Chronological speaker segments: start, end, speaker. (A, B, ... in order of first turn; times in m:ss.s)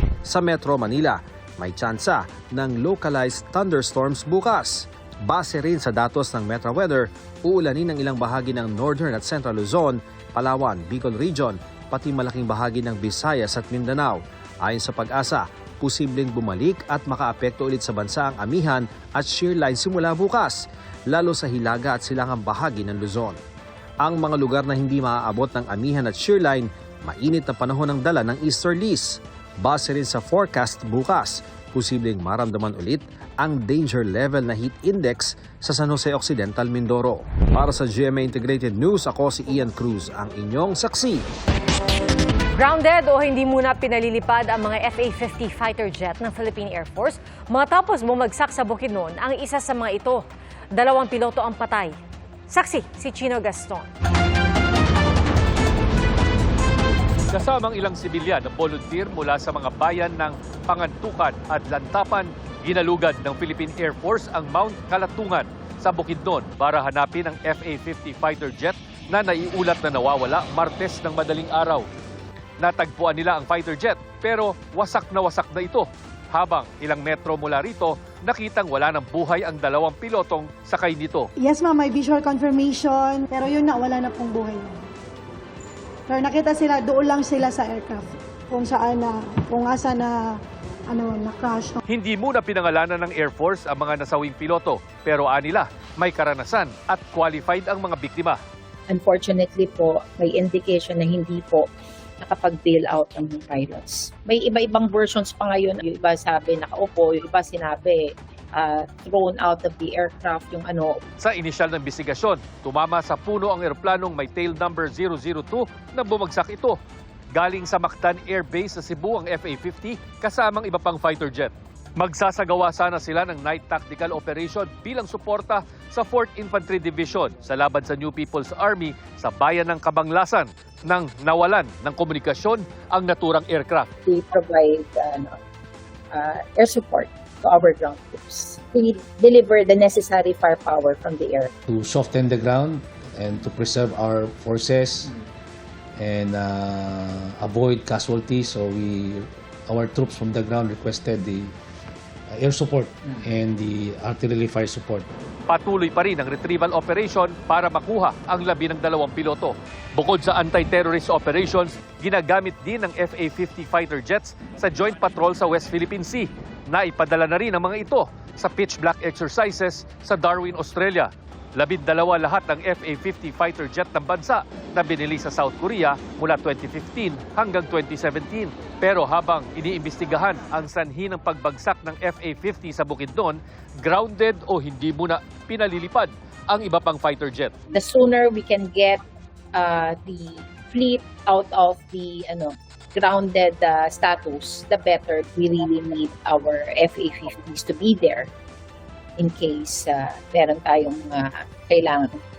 0:00.2-0:23.4 A
0:24.0-0:41.2 A
0:42.6-0:51.9 B
0:52.5-0:53.9 B
0:57.3-1:11.8 C
1:12.6-1:21.3 C
1:21.4-1:24.8 D
1:26.1-1:30.2 D
1:30.9-1:31.8 D
1:31.9-1:38.4 C
1:38.9-1:41.7 E
1:42.2-1:51.0 E
1:51.2-1:56.8 C
1:57.3-2:13.9 C
2:14.1-2:15.4 E
2:16.1-2:21.5 E
2:21.7-2:25.1 F
2:26.0-2:31.5 F
2:32.4-2:35.1 F
2:35.5-3:07.5 C
3:07.7-3:09.0 E
3:09.5-3:18.3 E
3:19.2-3:22.2 E